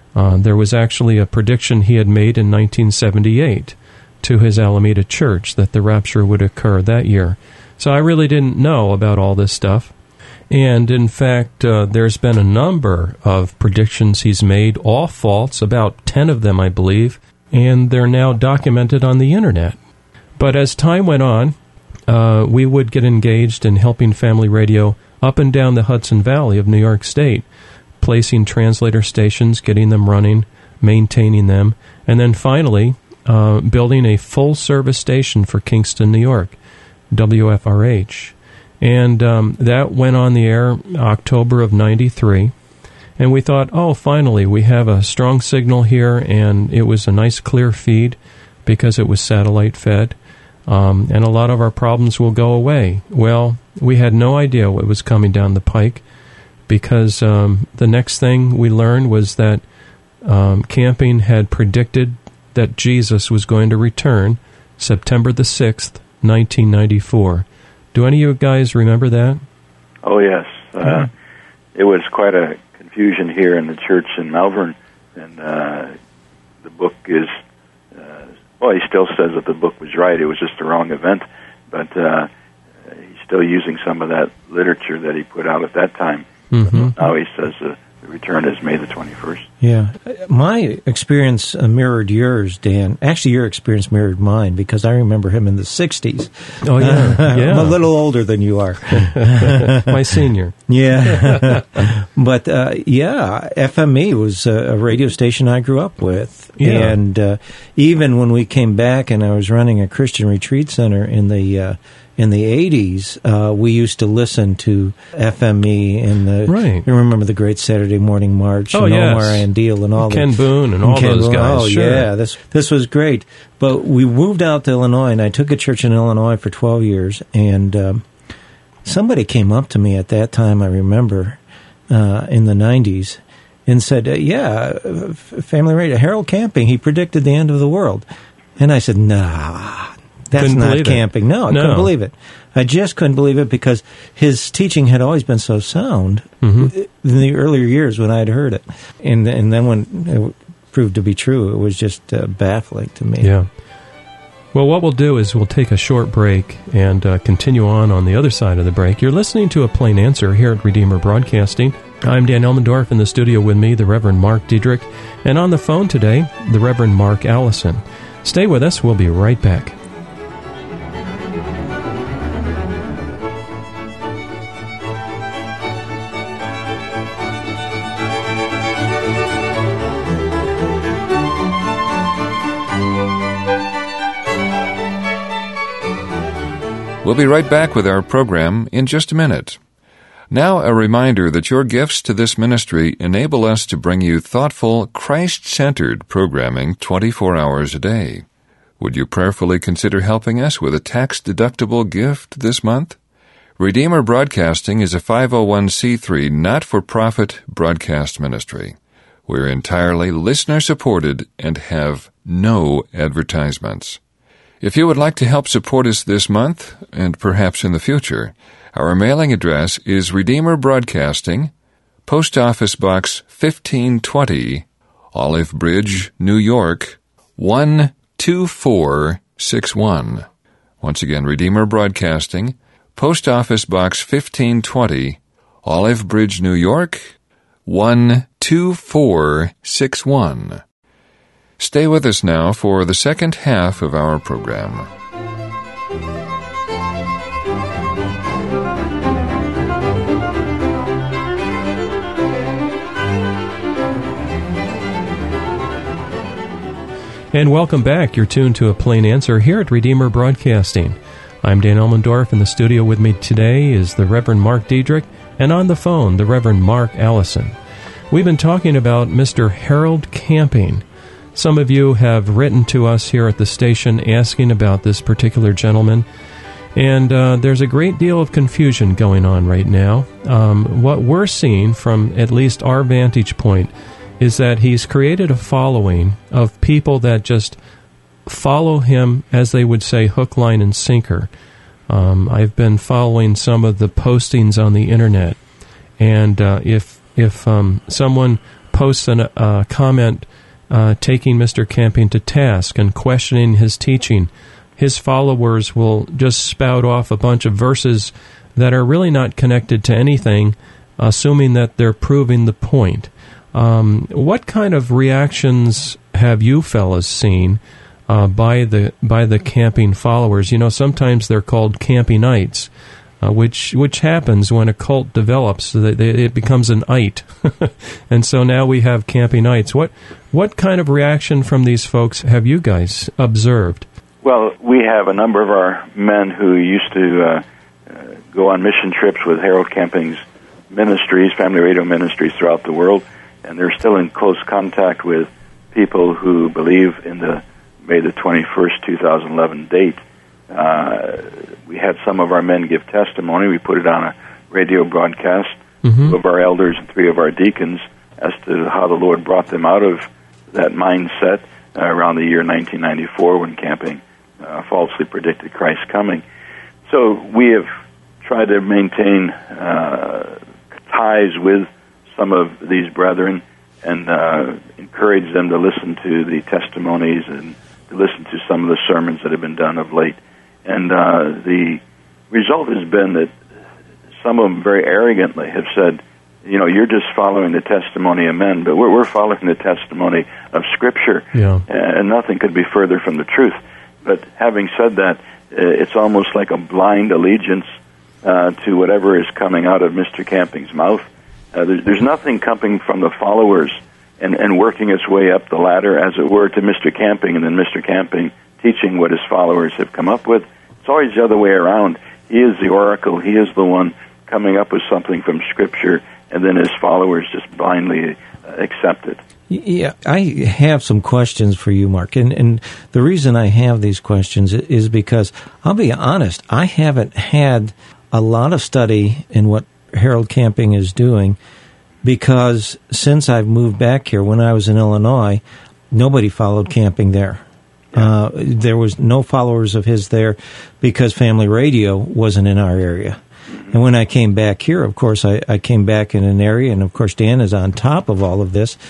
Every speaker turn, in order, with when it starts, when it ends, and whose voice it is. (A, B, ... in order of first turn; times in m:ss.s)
0:00.1-0:09.9 A
0:10.5-0:19.8 A
0:20.4-0:21.5 A
0:22.1-0:27.4 A
0:28.0-0:36.6 A
0:37.1-0:42.5 A
0:43.2-0:56.0 A
0:56.7-0:59.6 A
1:00.2-1:09.4 A
1:10.0-1:11.1 B
1:11.7-1:15.9 B
1:16.6-1:17.3 B
1:17.9-1:22.3 B
1:22.9-1:29.5 B
1:26.5-1:27.0 A
1:29.6-1:40.0 C
1:36.6-1:37.8 A
1:38.9-1:41.9 A
1:40.7-2:00.3 C
1:46.6-1:47.0 A
1:56.5-1:56.8 A
1:58.7-2:02.1 A
2:00.8-2:08.0 C
2:08.8-2:18.0 C
2:18.6-2:33.3 C
2:20.4-2:21.9 A
2:26.4-2:26.7 A
2:33.2-2:33.5 A
2:34.5-2:49.8 A
3:07.0-3:09.6 D
3:10.3-3:18.2 D
3:18.8-3:23.0 D
3:23.6-3:28.8 D
3:29.3-3:34.0 D
3:34.6-3:41.5 D
3:42.0-3:50.2 D
3:50.8-3:57.1 D
3:57.6-4:00.6 D
4:01.6-4:04.9 D
4:17.3-4:27.5 A
4:28.1-4:30.8 A
4:31.3-4:36.0 A
4:36.7-4:47.6 A
4:48.2-4:51.3 A
4:51.9-4:55.4 A
4:56.0-5:22.7 A
5:23.2-5:33.8 A
5:34.2-5:40.2 B
5:40.7-5:50.0 B
5:50.5-5:55.5 B
5:55.8-5:56.1 A
5:56.0-6:06.2 B
6:06.9-6:07.7 B
6:08.2-6:23.4 B
6:24.2-6:37.6 B
6:31.3-6:31.6 A
6:38.2-6:59.2 B
6:59.5-7:11.4 C
7:12.0-7:17.4 C
7:17.9-7:23.2 C
7:23.7-7:28.8 C